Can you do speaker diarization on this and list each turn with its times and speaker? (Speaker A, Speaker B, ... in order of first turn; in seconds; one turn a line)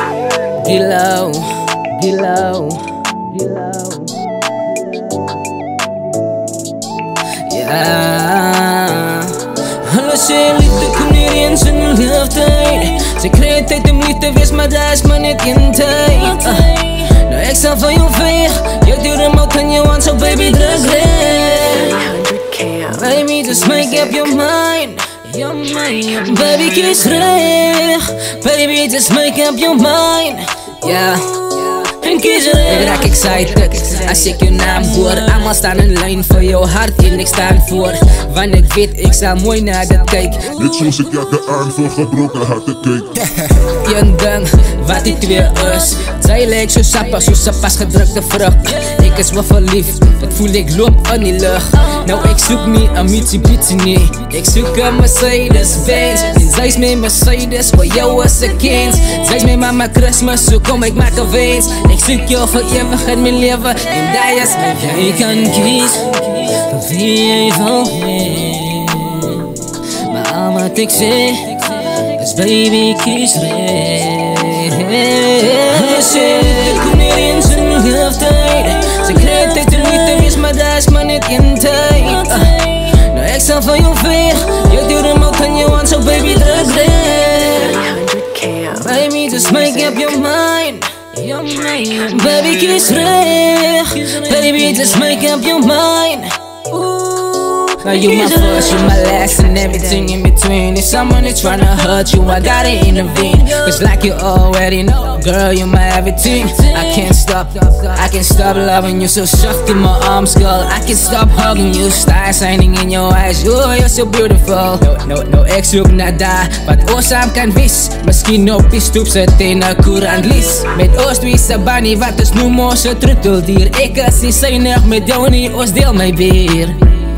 Speaker A: 0.6-4.1
Speaker A: 7.4-22.0
Speaker B: 21.6-24.3
Speaker A: 22.9-40.6
Speaker B: 32.8-34.4
Speaker C: 40.5-43.2
Speaker A: 43.6-87.8
Speaker B: 87.3-90.1
Speaker A: 88.8-97.3
Speaker A: 97.8-126.8
Speaker B: 98.8-100.2